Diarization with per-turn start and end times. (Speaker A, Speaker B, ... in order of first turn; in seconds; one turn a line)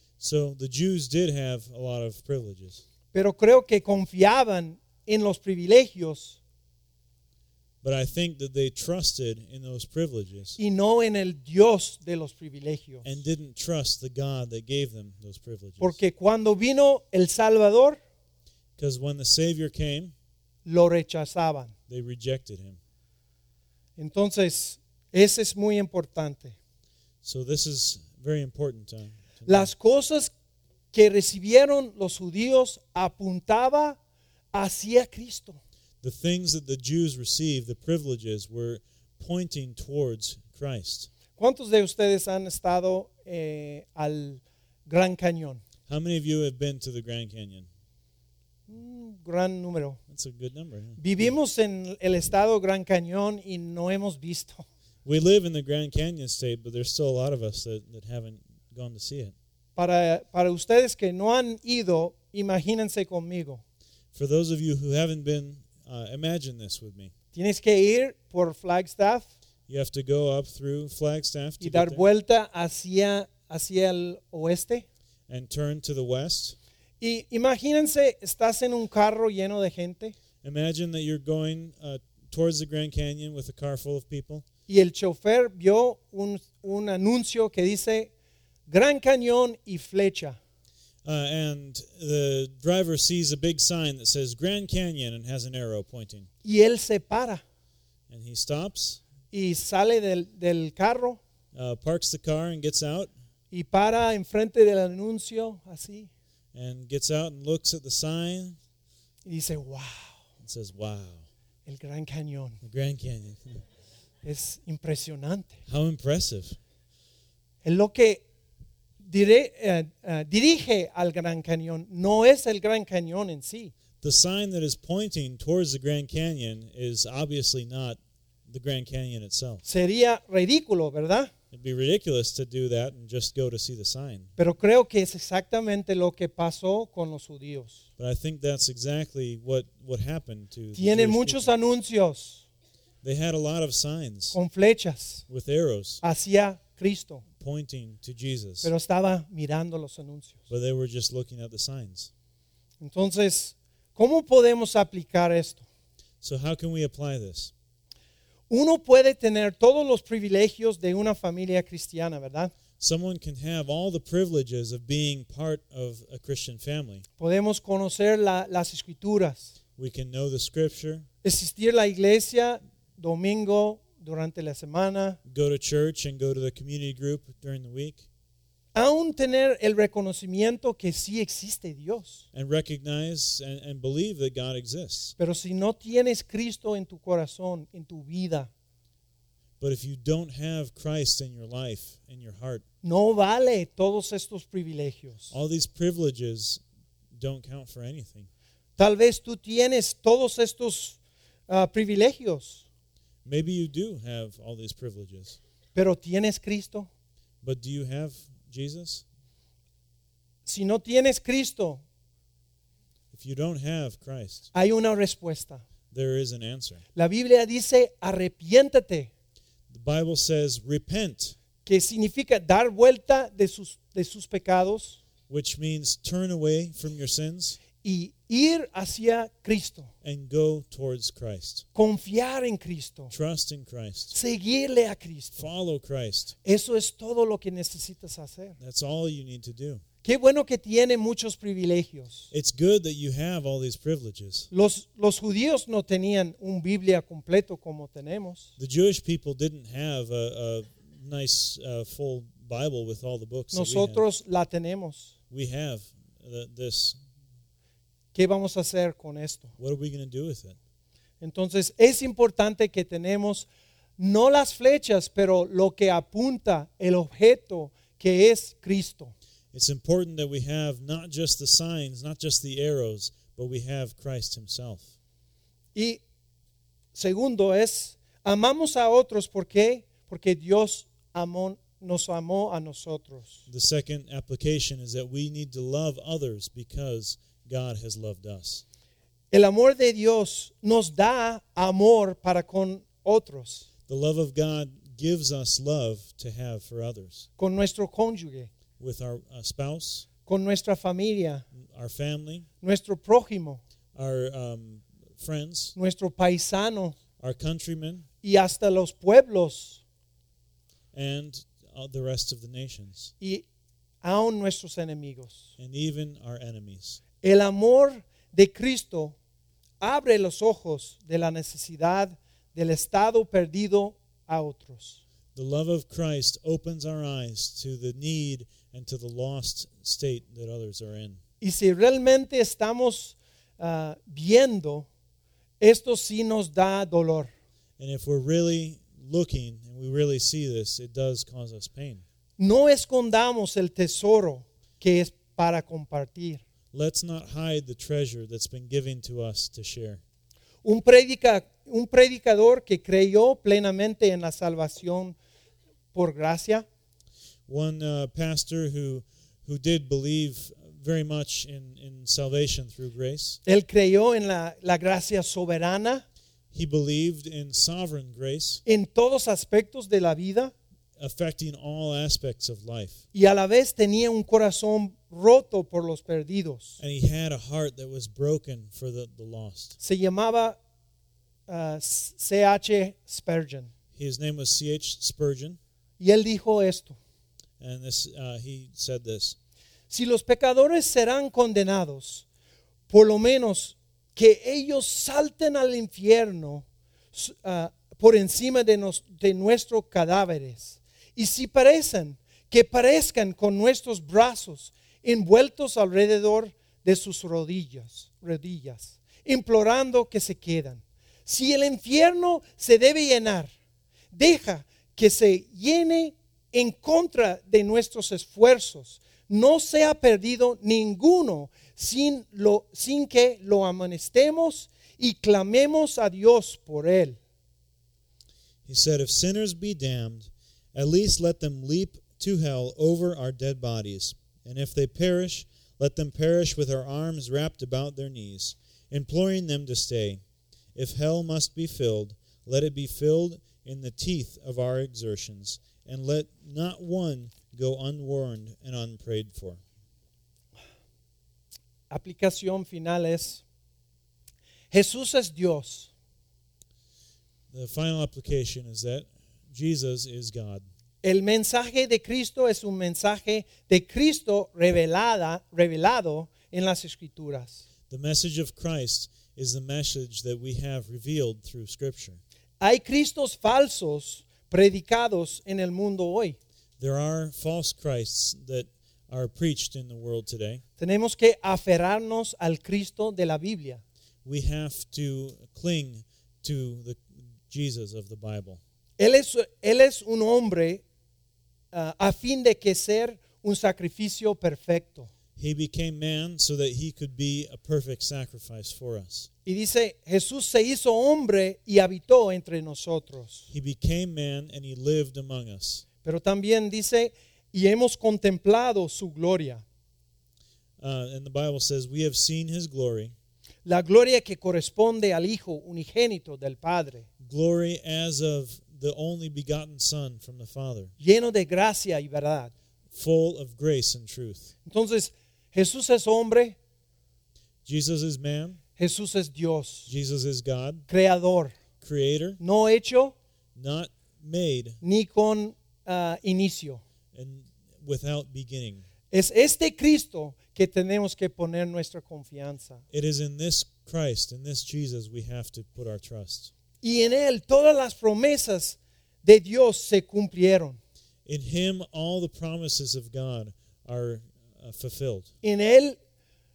Speaker A: 0.2-2.8
Speaker B: 3.1-6.4
Speaker A: 7.8-10.6
Speaker B: 10.6-13.1
Speaker A: 13.0-16.0
Speaker B: 15.8-18.0
Speaker A: 18.8-20.1
Speaker B: 20.6-21.7
Speaker A: 21.9-22.8
Speaker B: 24.0-26.5
Speaker A: 27.2-29.7
Speaker B: 29.4-30.3
Speaker B: 30.9-34.0
Speaker B: 34.5-35.6
Speaker A: 36.0-41.1
Speaker B: 41.4-45.6
Speaker A: 45.9-47.7
Speaker B: 48.7-50.0
Speaker A: 50.1-51.3
Speaker B: 51.0-54.6
Speaker A: 55.0-59.3
Speaker B: 59.8-63.6
Speaker A: 64.1-67.1
Speaker B: 67.3-69.3
Speaker A: 69.7-72.0
Speaker B: 71.6-74.8
Speaker A: 75.3-76.5
Speaker B: 77.0-80.2
Speaker A: 80.4-84.4
Speaker B: 84.7-88.1
Speaker B: 88.7-90.4
Speaker A: 91.0-96.3
Speaker B: 96.4-97.4
Speaker A: 98.1-99.0
Speaker B: 99.3-101.2
Speaker A: 101.5-103.1
Speaker B: 103.5-106.1
Speaker A: 106.5-108.6
Speaker B: 109.2-110.2
Speaker A: 110.4-111.2
Speaker B: 111.7-112.6
Speaker A: 112.6-113.6
Speaker B: 114.2-115.6
Speaker A: 115.7-116.6
Speaker B: 117.6-118.2
Speaker B: 119.0-123.7
Speaker A: 124.0-129.6
Speaker B: 129.6-131.3
Speaker A: 131.5-134.3
Speaker B: 134.4-137.8
Speaker A: 138.0-141.5
Speaker B: 140.8-142.4
Speaker A: 143.0-144.3
Speaker B: 144.3-145.2
Speaker A: 145.3-146.0
Speaker B: 146.0-147.2
Speaker A: 147.4-148.7
Speaker B: 148.6-150.4
Speaker A: 150.5-152.1
Speaker B: 152.8-155.6
Speaker A: 156.2-157.5
Speaker B: 158.5-162.5
Speaker A: 162.8-167.0
Speaker B: 167.2-169.5
Speaker A: 169.8-171.1
Speaker B: 171.2-175.2
Speaker A: 175.2-178.1
Speaker B: 178.7-182.2
Speaker A: 182.3-185.1
Speaker B: 185.2-188.5
Speaker A: 189.6-192.6
Speaker B: 192.8-195.3
Speaker A: 195.3-196.6
Speaker A: 197.1-198.3
Speaker B: 198.8-202.6
Speaker A: 203.2-205.4
Speaker B: 205.7-206.9
Speaker A: 207.4-209.0
Speaker B: 210.4-211.8
Speaker A: 213.1-214.5
Speaker B: 214.5-215.6
Speaker A: 215.9-216.8
Speaker B: 216.9-219.1
Speaker A: 219.7-221.3
Speaker B: 221.6-225.0
Speaker A: 225.3-227.6
Speaker B: 227.8-229.9
Speaker A: 230.0-231.6
Speaker B: 231.7-233.1
Speaker A: 233.1-234.1
Speaker B: 234.1-235.5
Speaker A: 235.4-236.3
Speaker B: 236.4-238.6
Speaker A: 238.6-239.8
Speaker B: 240.0-242.3
Speaker A: 242.3-244.5
Speaker B: 244.5-248.5
Speaker A: 248.6-254.0
Speaker B: 253.5-255.1
Speaker A: 255.3-257.0
Speaker B: 258.1-259.5
Speaker A: 259.6-260.6
Speaker B: 261.2-263.5
Speaker B: 264.0-269.1
Speaker A: 269.5-274.9
Speaker B: 275.7-276.0
Speaker B: 276.9-283.4
Speaker A: 283.5-288.6
Speaker B: 289.3-293.7
Speaker A: 293.9-297.2
Speaker B: 297.4-298.5
Speaker A: 298.8-300.1
Speaker B: 300.2-301.4
Speaker A: 301.6-302.5
Speaker B: 302.6-303.6
Speaker A: 303.9-305.8
Speaker B: 305.8-307.0
Speaker A: 307.2-308.1
Speaker B: 308.2-309.8
Speaker A: 310.9-313.1
Speaker B: 314.0-315.5
Speaker A: 315.6-317.0
Speaker B: 317.2-319.1
Speaker B: 319.8-325.0
Speaker A: 325.3-331.2
Speaker B: 331.4-334.9
Speaker B: 335.6-337.3
Speaker A: 337.8-342.0
Speaker B: 342.4-346.4
Speaker A: 346.7-350.0
Speaker B: 350.6-355.1
Speaker B: 355.9-356.6
Speaker A: 357.5-363.4
Speaker B: 363.4-366.0
Speaker A: 366.5-368.6
Speaker B: 368.6-370.5
Speaker A: 371.0-373.0
Speaker B: 373.1-376.8
Speaker A: 376.8-379.8
Speaker B: 379.8-380.6
Speaker B: 381.5-383.7
Speaker A: 383.9-385.6
Speaker B: 386.0-387.0
Speaker A: 387.6-389.4
Speaker B: 389.9-392.2
Speaker B: 392.9-413.5
Speaker B: 414.1-427.2
Speaker A: 428.6-440.2
Speaker A: 440.7-449.6
Speaker B: 451.9-453.4
Speaker B: 454.7-455.9
Speaker A: 457.5-460.7
Speaker B: 461.0-467.6
Speaker A: 467.9-472.2
Speaker B: 472.6-476.4
Speaker A: 476.8-480.6
Speaker B: 480.8-483.8
Speaker A: 484.2-488.6
Speaker B: 489.0-490.8
Speaker B: 491.7-495.1
Speaker A: 495.4-499.3
Speaker B: 499.4-503.5
Speaker A: 503.5-505.8
Speaker B: 506.0-509.6
Speaker A: 510.8-513.1
Speaker B: 513.6-517.0
Speaker A: 517.2-520.9
Speaker B: 521.0-522.5
Speaker A: 522.9-524.5
Speaker B: 524.6-526.5
Speaker A: 527.6-528.6
Speaker B: 528.8-529.9
Speaker A: 529.9-530.9
Speaker B: 530.9-531.5
Speaker A: 531.8-532.4
Speaker B: 532.4-533.1
Speaker A: 533.5-534.8
Speaker B: 534.8-536.8
Speaker A: 537.1-538.8
Speaker B: 539.1-542.8
Speaker A: 542.9-546.5
Speaker B: 546.8-550.8
Speaker A: 551.2-555.3
Speaker B: 555.4-556.0